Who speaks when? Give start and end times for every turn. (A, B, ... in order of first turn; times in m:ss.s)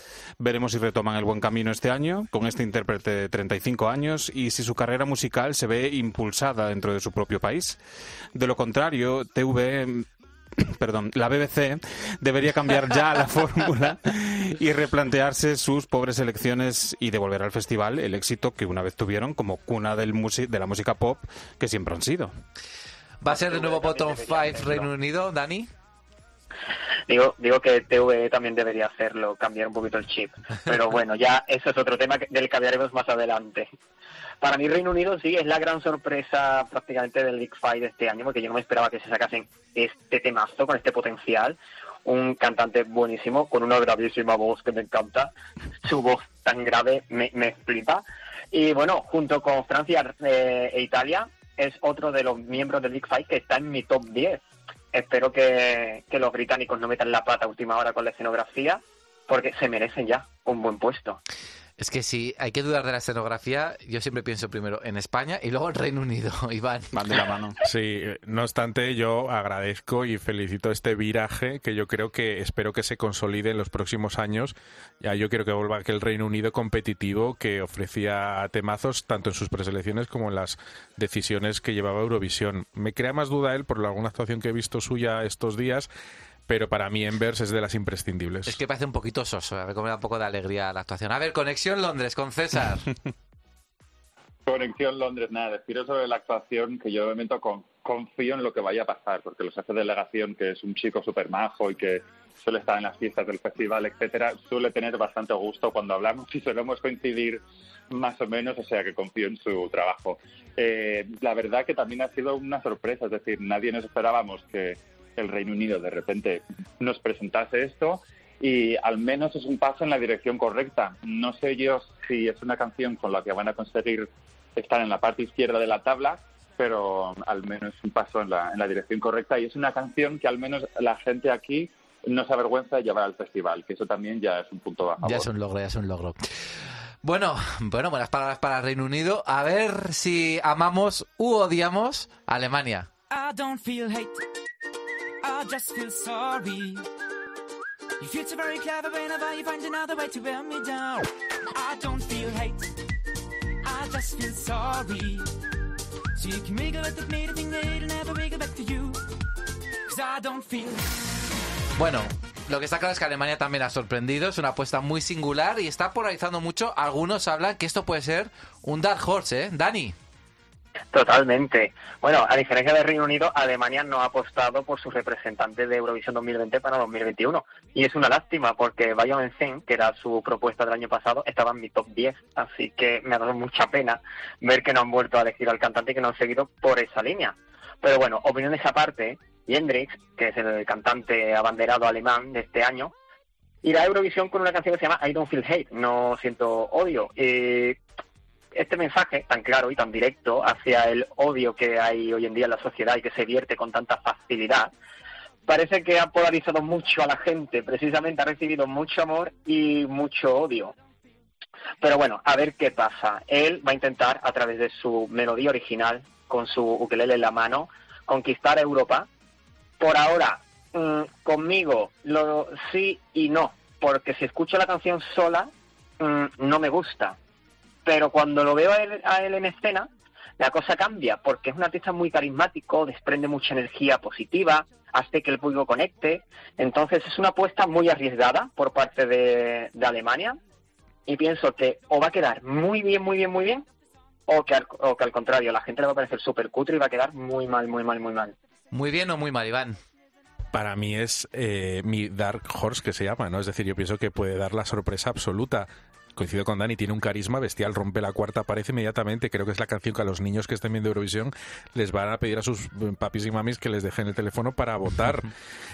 0:00.4-0:07.8 A
0:08.4-0:10.1 A
0:10.6-0:22.3 A
0:23.2-0:25.7 B
0:23.3-0:24.9 C
0:27.1-0:33.7 C
0:34.4-0:45.3 C
0:45.8-1:01.2 C
1:01.8-1:06.9 B
1:06.9-1:07.6 A
1:07.6-1:25.9 D
1:26.5-1:28.6 D
1:28.5-1:32.9 B
1:34.5-2:15.3 E
2:15.0-2:16.2 B
2:17.0-2:22.9 B
2:23.1-2:24.2 F
2:25.2-2:26.8 F
2:28.0-2:32.7 F
2:33.6-2:35.3 F
2:36.2-2:39.0 F
2:39.9-2:40.8 F
2:41.8-2:50.0 B
2:50.9-3:12.9 C
3:13.6-3:17.8 C
3:18.5-3:24.7 C
3:25.5-3:30.7 C
3:31.8-3:39.1 C
3:39.8-3:47.2 C
3:47.8-4:00.4 C
4:01.1-4:03.7 C
4:04.3-4:08.4 C
4:08.7-4:09.8 B
4:10.5-4:25.3 D